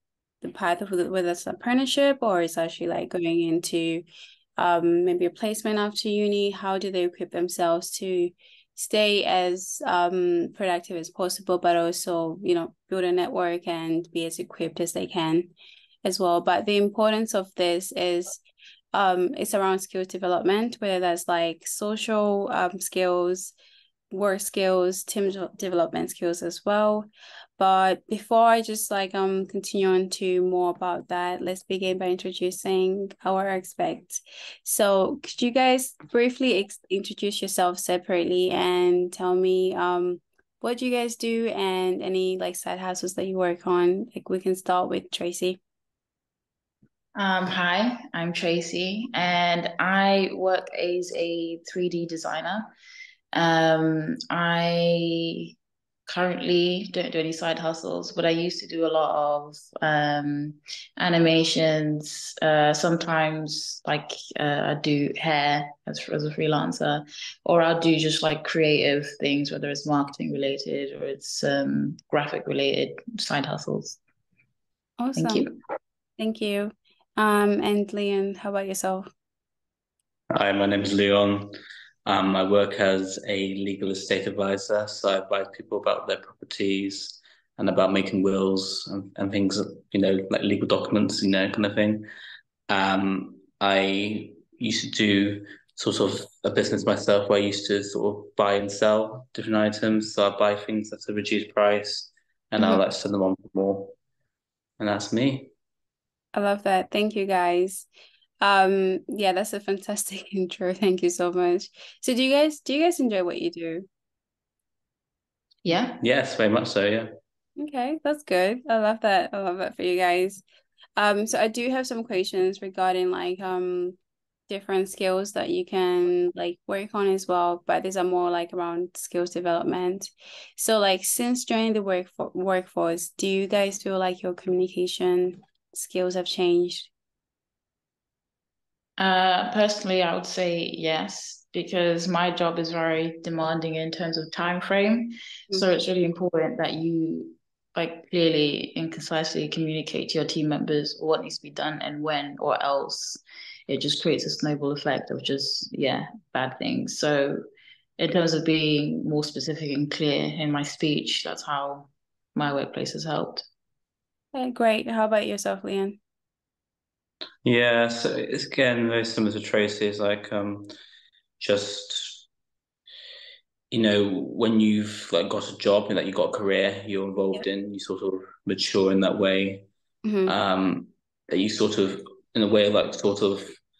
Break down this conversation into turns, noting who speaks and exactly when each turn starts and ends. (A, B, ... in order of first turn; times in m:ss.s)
0:00.4-0:04.0 A
0:04.6-0:15.5 A
0:16.0-0:18.4 A
0:18.9-0:23.5 A
0:24.1-0:27.1 A
0:27.6-0:45.6 A
0:47.2-0:52.7 B
0:53.3-0:55.5 B
0:56.1-1:14.0 B
1:15.0-1:15.5 A
1:15.2-1:15.5 B
1:16.2-1:19.1 A
1:20.3-1:21.5 C
1:22.0-1:32.1 C
1:32.7-1:43.9 C
1:44.8-1:45.5 C
1:46.3-1:47.9 A
1:48.4-1:53.8 A
1:55.6-1:56.0 B
1:56.0-1:57.1 C
1:57.6-2:00.4 A
2:01.0-2:04.0 A
2:04.5-2:16.9 A
2:19.0-2:37.4 B
2:38.0-2:43.4 B
2:44.3-2:46.0 A
2:47.4-2:50.7 C
2:51.4-2:52.2 C
2:53.7-2:59.7 C
3:00.0-3:00.3 A
3:00.2-3:03.6 C